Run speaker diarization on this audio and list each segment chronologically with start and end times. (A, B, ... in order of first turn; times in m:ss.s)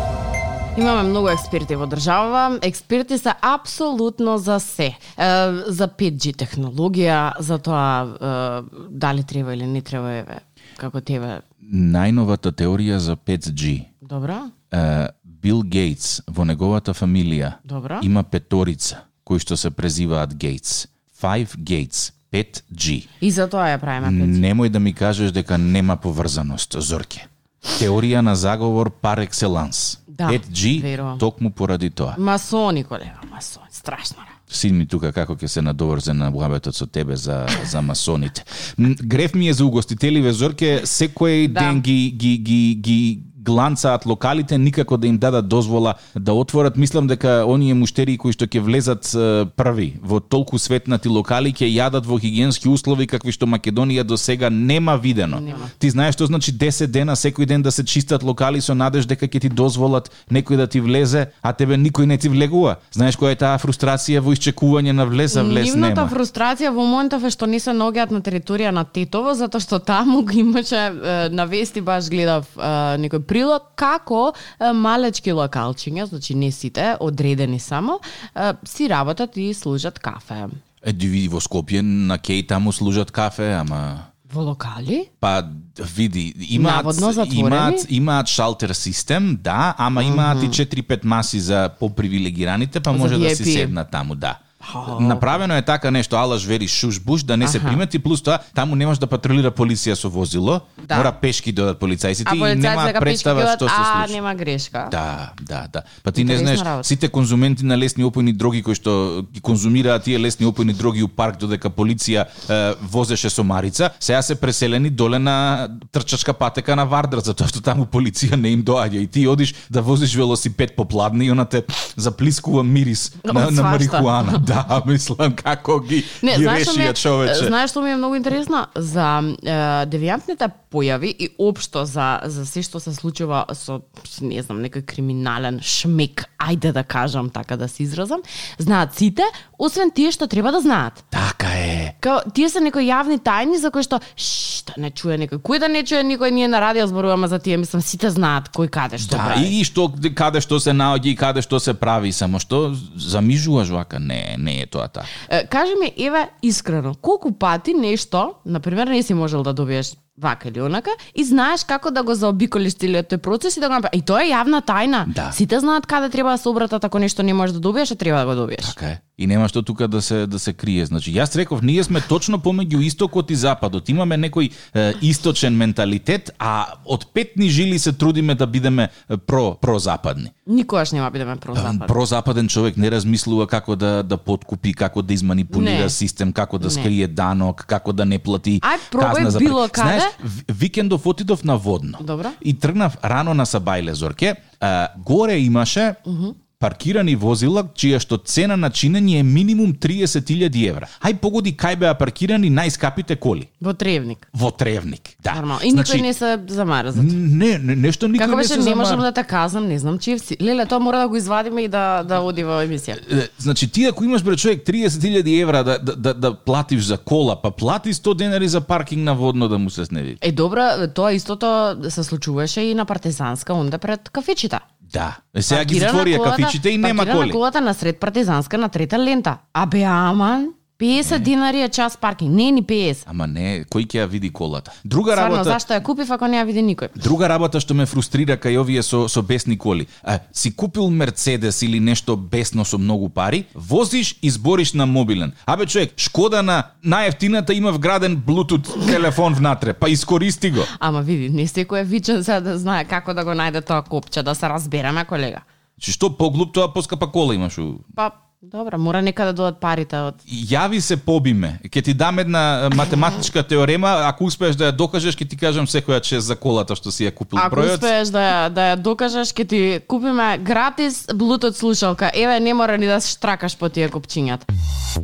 0:00.8-0:11.4 A
0:11.6-0:13.9 B
0:14.0-0:14.5 A
0:14.7-0:23.1 B
0:17.6-0:18.1 A
0:23.2-0:24.4 A
0:24.0-0:32.2 B
0:30.1-0:31.2 A
0:32.2-0:34.4 A
0:34.5-1:06.2 B
0:41.5-0:41.8 A
0:55.3-0:55.7 A
1:05.3-1:20.6 A
1:20.8-1:24.1 B
1:24.3-1:25.1 A
1:25.2-1:44.2 B
1:26.6-1:27.9 A
1:30.0-1:30.6 A
1:32.9-1:33.8 A
1:34.6-1:35.4 A
1:37.4-1:37.8 A
1:40.8-1:41.1 A
1:42.3-1:45.0 A
1:44.9-2:07.5 B
1:46.2-1:46.9 A
2:03.2-2:04.4 A
2:06.2-2:21.0 A
2:21.1-2:22.0 B
2:22.0-2:29.6 A
2:29.0-2:35.1 B
2:35.2-2:48.8 A
2:45.1-2:45.4 B
2:48.6-3:00.3 B
3:00.5-3:01.9 A
3:01.6-3:16.0 B
3:05.5-3:06.0 A
3:06.6-3:06.9 A
3:08.6-3:10.1 A
3:12.0-3:12.4 A
3:16.1-3:16.4 A
3:16.6-3:23.5 B
3:23.6-3:24.3 A
3:24.3-3:26.1 B
3:25.3-3:27.2 A
3:26.9-3:29.1 B
3:28.2-3:33.0 A
3:33.0-3:40.2 B
3:40.2-3:44.6 A
3:44.9-3:47.4 B
3:45.5-3:53.0 A
3:51.0-3:51.3 B
3:53.1-3:55.6 B
3:55.1-3:57.0 A
3:57.0-4:10.7 B
4:10.8-4:15.4 A
4:15.8-4:17.9 B
4:18.0-4:20.2 A
4:20.3-4:27.9 B
4:27.4-4:34.5 A